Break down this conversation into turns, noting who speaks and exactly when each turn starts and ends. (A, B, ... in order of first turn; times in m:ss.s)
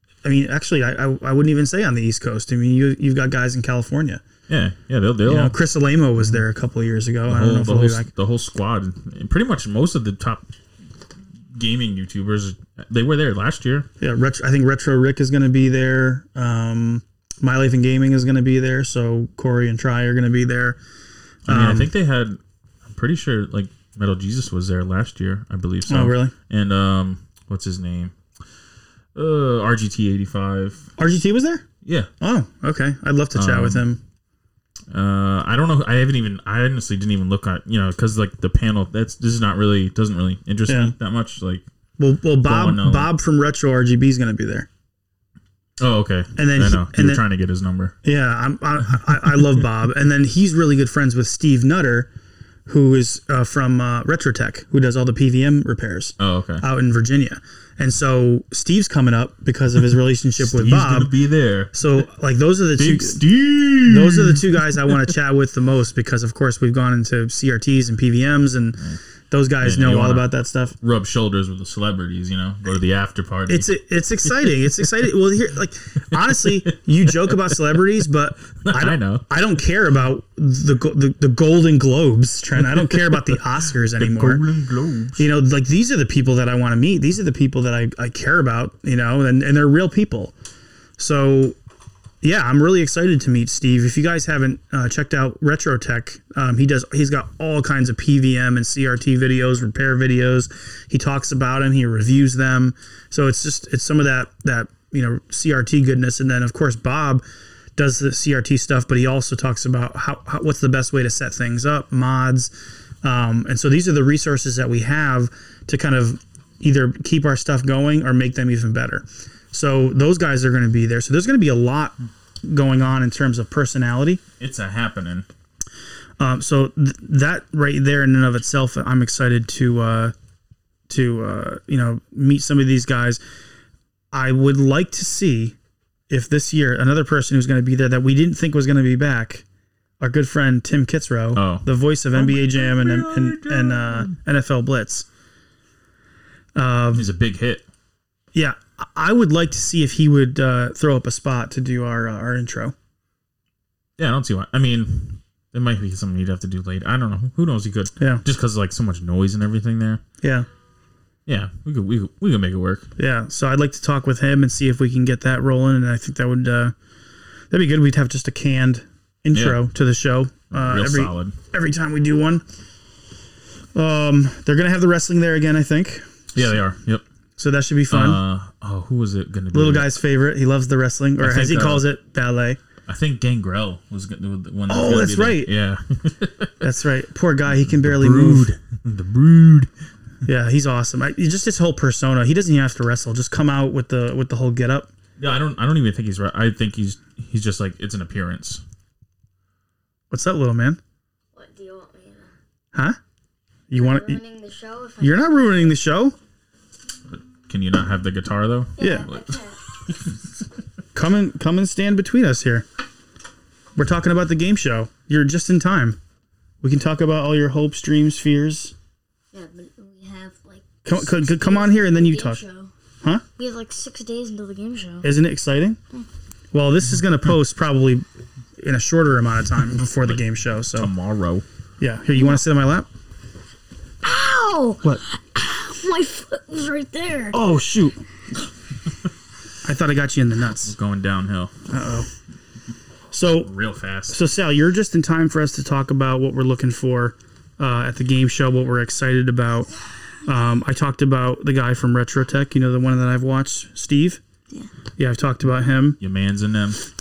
0:00.2-0:04.2 A
0:04.5-0:05.6 B
0:05.2-0:08.1 A
0:07.3-0:10.5 B
0:11.5-0:13.9 B
0:14.0-0:20.8 A
0:21.5-0:21.9 A
0:21.5-0:28.2 B
0:25.9-0:26.3 A
0:29.2-0:30.9 B
0:31.0-0:31.6 A
0:31.8-0:32.1 B
0:32.2-0:34.0 A
0:33.4-0:33.8 B
0:34.9-0:41.6 B
0:40.7-0:40.9 A
0:42.0-0:44.7 A
0:42.4-0:43.1 B
0:45.8-0:48.0 B
0:46.4-0:47.2 A
0:48.0-0:52.1 A
0:52.7-1:01.1 A
0:56.2-0:56.6 B
1:00.4-1:01.7 B
1:01.7-1:03.2 A
1:02.8-1:05.0 B
1:03.8-1:10.8 A
1:09.6-1:10.3 B
1:10.8-1:13.7 B
1:13.5-1:24.4 A
1:16.1-1:16.6 B
1:18.6-1:19.2 B
1:22.8-1:23.4 B
1:24.0-1:25.3 B
1:25.2-1:30.3 A
1:31.0-1:31.6 A
1:32.2-1:47.2 A
1:47.8-1:52.5 A
1:53.0-2:04.2 A
2:04.4-2:05.3 B
2:06.2-2:10.1 A
2:10.9-2:13.2 A
2:14.1-2:15.6 A
2:16.1-2:19.4 A
2:20.0-2:25.1 A
2:21.4-2:24.2 B
2:26.6-2:27.1 A
2:26.9-2:27.6 B
2:28.4-2:32.7 A
2:34.0-2:40.0 B
2:40.2-2:40.5 A
2:41.3-2:42.9 B
2:43.0-2:46.7 A
2:47.5-2:52.4 A
2:49.3-2:49.6 B
2:50.5-2:51.4 B
2:53.8-2:56.1 A
2:56.3-2:57.0 B
2:57.4-2:58.2 A
2:57.9-2:59.9 B
2:59.5-3:02.6 A
3:01.2-3:01.8 B
3:02.9-3:06.6 B
3:04.7-3:05.5 A
3:06.6-3:08.5 A
3:07.5-3:09.7 B
3:10.2-3:14.9 A
3:15.2-3:18.6 B
3:20.1-3:20.8 A
3:21.3-3:22.3 C
3:23.7-3:24.2 A
3:23.7-3:25.8 C
3:25.0-3:26.2 A
3:27.5-3:30.1 B
3:28.8-3:29.6 C
3:28.8-3:29.1 A
3:31.0-3:32.7 A
3:33.8-3:36.0 A
3:36.6-3:38.7 A
3:39.3-3:42.7 C
3:40.8-3:42.4 A
3:43.4-3:45.1 C
3:45.0-3:45.8 A
3:46.5-3:48.0 A
3:48.6-3:50.9 A
3:50.7-3:51.4 B
3:51.8-3:52.9 A
3:54.0-3:57.4 C
3:57.3-3:58.0 A
3:59.6-4:00.8 A
4:00.6-4:01.5 B
4:01.7-4:02.1 A
4:03.1-4:03.5 A
4:03.3-4:04.2 B
4:04.1-4:09.7 A
4:10.2-4:14.2 A
4:15.0-4:16.0 A
4:16.0-4:16.8 B